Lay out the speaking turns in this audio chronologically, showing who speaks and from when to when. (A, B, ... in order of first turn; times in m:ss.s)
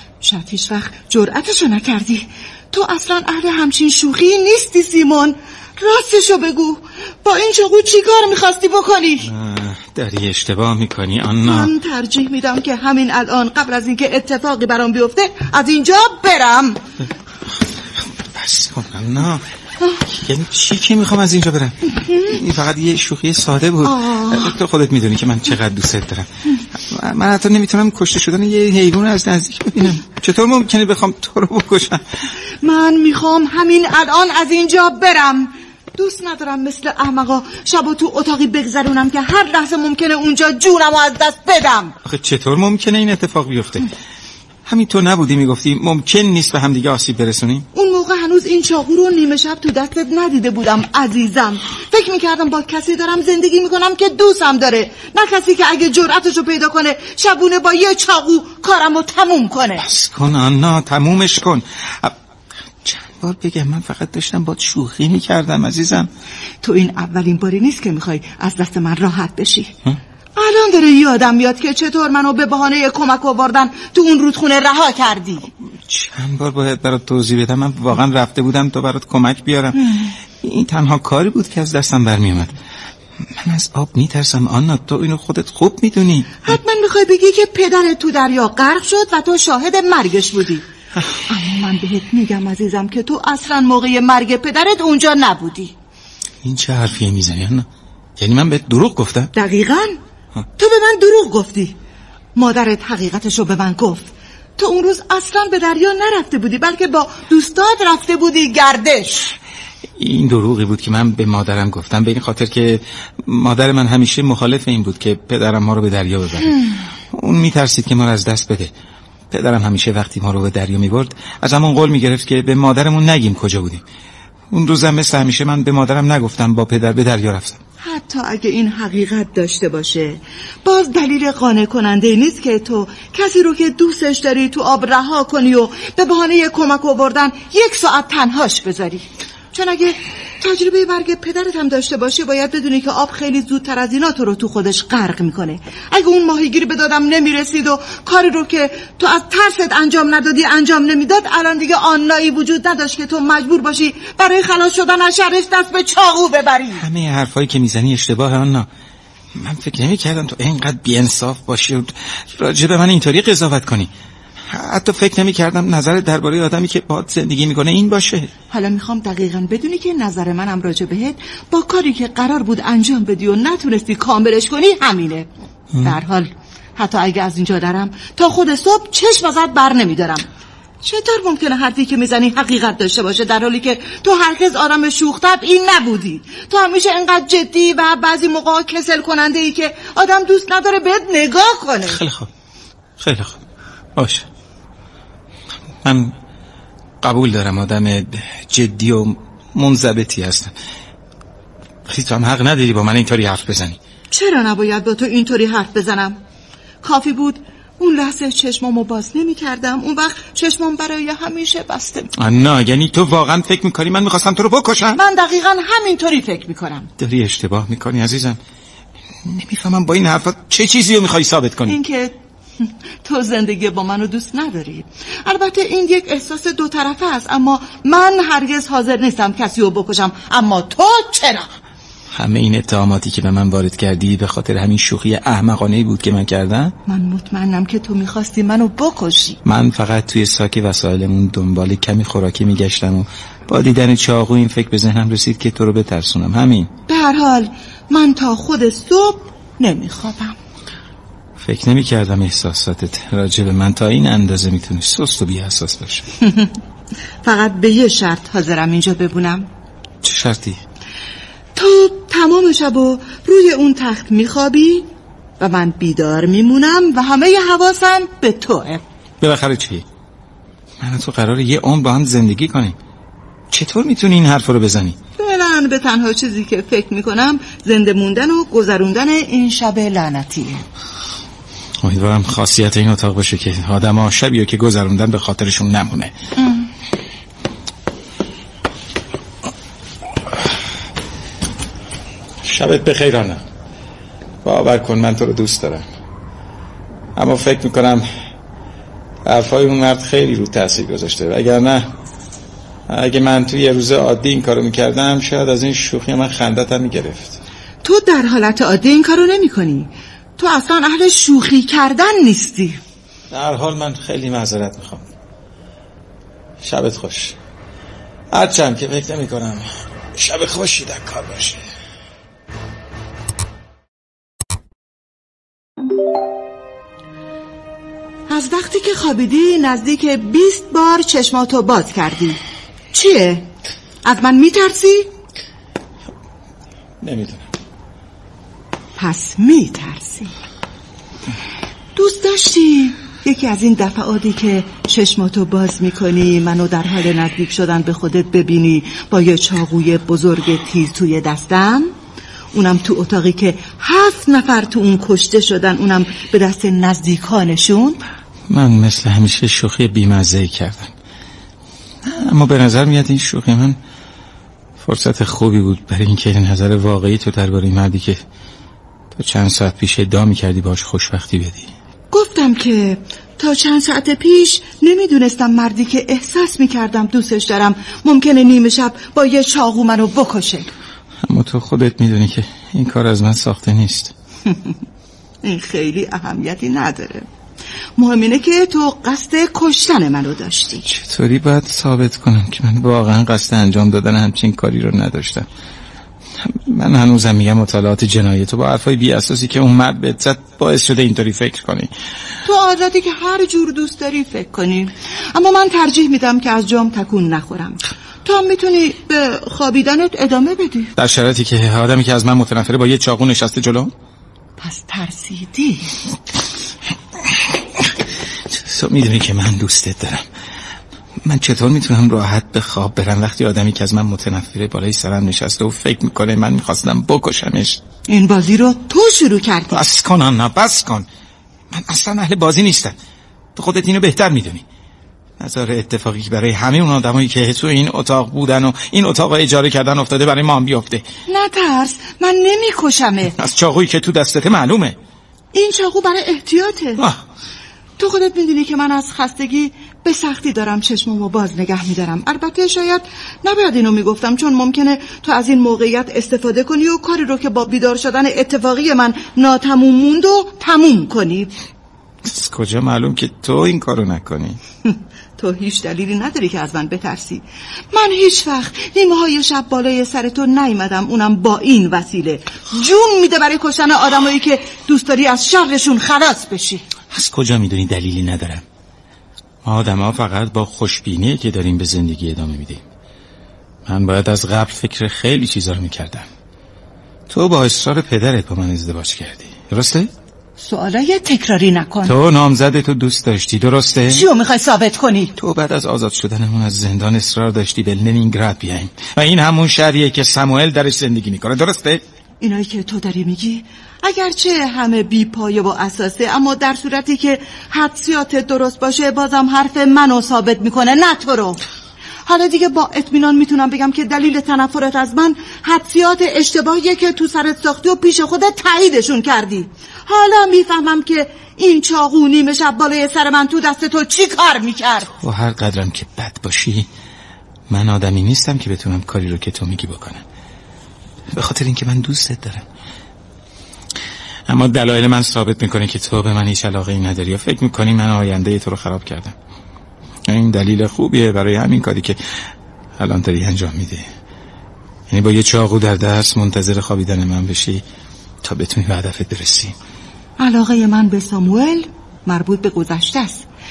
0:00.2-0:09.3 A
0:09.3-0:11.7 B
0:11.4-0:16.8 A
0:18.0-0:19.4 B
0:20.0-0:32.2 B
0:23.8-0:24.5 A
0:32.6-0:41.9 A
0:42.0-0:43.9 B
0:44.6-0:47.7 B
0:47.7-0:59.8 A
0:59.8-1:02.1 B
1:02.8-1:06.1 B
1:06.6-1:09.7 A
1:10.4-1:15.5 A
1:15.8-1:22.6 B
1:19.7-1:20.1 A
1:23.4-1:26.6 B
1:26.4-1:30.7 A
1:31.3-1:35.7 A
1:36.4-1:39.3 B
1:39.3-1:40.0 A
1:40.6-1:41.8 A
1:42.3-1:49.3 A
1:50.0-1:56.6 B
1:57.1-1:58.7 B
1:59.3-2:03.8 B
2:04.5-2:07.6 B
2:07.8-2:36.8 A
2:36.8-2:38.7 B
2:39.3-2:43.9 B
2:44.5-2:48.3 B
2:48.5-3:00.2 A
3:00.8-3:12.0 A
3:11.9-3:12.3 B
3:13.0-3:13.4 B
3:14.0-3:14.2 B
3:15.8-3:16.1 B
3:17.0-3:20.5 B
3:21.9-3:23.8 B
3:24.1-3:26.2 A
3:26.8-3:32.1 A
3:32.2-3:35.0 B
3:34.9-3:36.9 A
3:37.0-3:38.4 B
3:39.2-3:41.8 B
3:41.6-3:51.5 A
3:52.1-3:56.7 B
3:56.9-3:59.4 A
3:59.4-4:06.7 B
4:06.9-4:10.4 A
4:11.4-4:16.1 B
4:17.2-4:19.5 A
4:20.0-4:20.6 B
4:21.5-4:28.8 A
4:29.2-4:29.8 B
4:30.8-4:32.8 B
4:33.5-4:35.0 B
4:35.2-4:40.6 A
4:41.8-4:46.1 B
4:46.4-4:46.7 A
4:52.4-4:53.4 B
4:54.4-4:55.8 B
4:57.2-4:58.0 B
4:59.2-5:01.9 B
5:02.9-5:07.4 B
5:07.8-5:12.8 A
5:13.3-5:15.0 B
5:16.6-5:17.3 B
5:18.3-5:21.6 B
5:28.3-5:32.4 A
5:32.9-5:33.5 A
5:34.0-5:35.1 A
5:37.0-5:37.4 B
5:39.0-5:40.3 A
5:41.9-5:51.9 A
5:52.5-5:58.0 A
5:58.5-6:00.9 B
6:02.0-6:03.8 B
6:04.8-6:08.2 B
6:09.1-6:11.7 B
6:12.1-6:20.7 A
6:21.3-6:24.1 B
6:25.4-6:27.3 A
6:28.0-6:30.9 A
6:30.9-6:35.5 B
6:36.4-6:41.9 B
6:42.4-6:50.9 A
6:51.0-6:53.9 B
6:54.6-6:55.9 A
6:58.5-7:00.2 B
7:01.2-7:07.8 B
7:08.1-7:09.8 A
7:09.7-7:11.0 B
7:11.7-7:12.9 B
7:13.6-7:14.6 B
7:15.4-7:21.0 B
7:21.3-7:23.4 A
7:23.4-7:24.9 B
7:25.5-7:27.0 A
7:28.0-7:41.5 A
7:42.2-7:44.6 B
7:44.9-7:56.8 A
7:57.1-7:58.6 B
7:59.6-8:02.8 B
8:03.8-8:06.3 B
8:07.3-8:10.1 B
8:10.6-8:12.1 A
8:12.0-8:14.2 B
8:14.1-8:15.3 A
8:15.4-8:22.0 B
8:22.4-8:31.6 A
8:32.2-8:45.1 A
8:45.1-8:46.9 B
8:47.7-8:50.2 B
8:51.3-8:52.6 B
8:54.5-8:59.3 B
9:00.3-9:02.2 B
9:03.0-9:04.0 B
9:05.1-9:07.8 B
9:08.4-9:09.7 B
9:10.4-9:13.4 A